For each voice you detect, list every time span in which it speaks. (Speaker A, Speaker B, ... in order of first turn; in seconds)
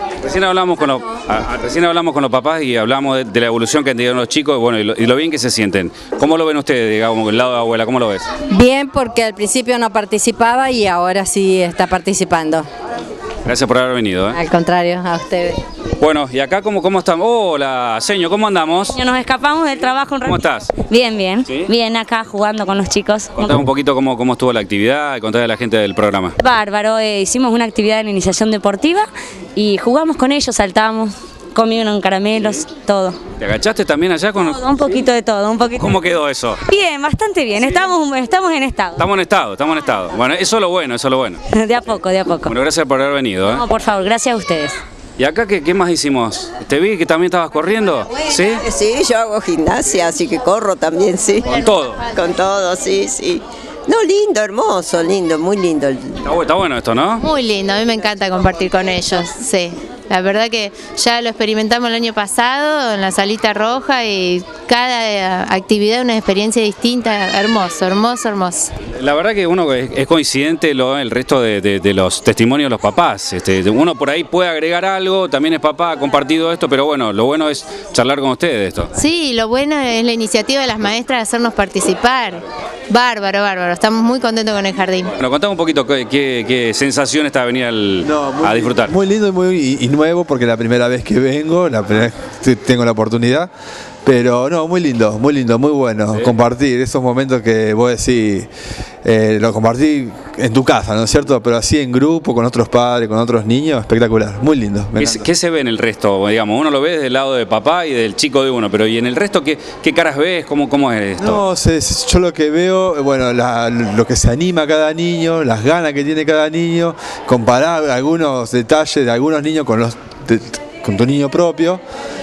Speaker A: 0.2-8.3, 13.4-14.4, 16.0-19.0, 20.2-20.8, 23.3-26.3, 32.4-32.6, 33.4-34.6, 35.8-36.6, 37.6-37.8, 39.0-41.4, 42.4-43.6, 45.2-48.6, 51.5-52.0, 56.2-57.2, 69.0-78.9, 85.2-88.9, 105.0-111.4
Speaker B: 8.5-12.7, 14.3-15.6
Speaker C: 18.9-23.5, 26.4-33.2, 34.4-35.9, 36.7-39.0, 41.5-42.5, 43.5-44.7
Speaker D: 48.7-51.5, 52.1-56.2
Speaker E: 57.2-68.7, 78.9-85.1
Speaker F: 88.0-93.5, 94.0-98.5, 99.0-105.3, 111.2-121.8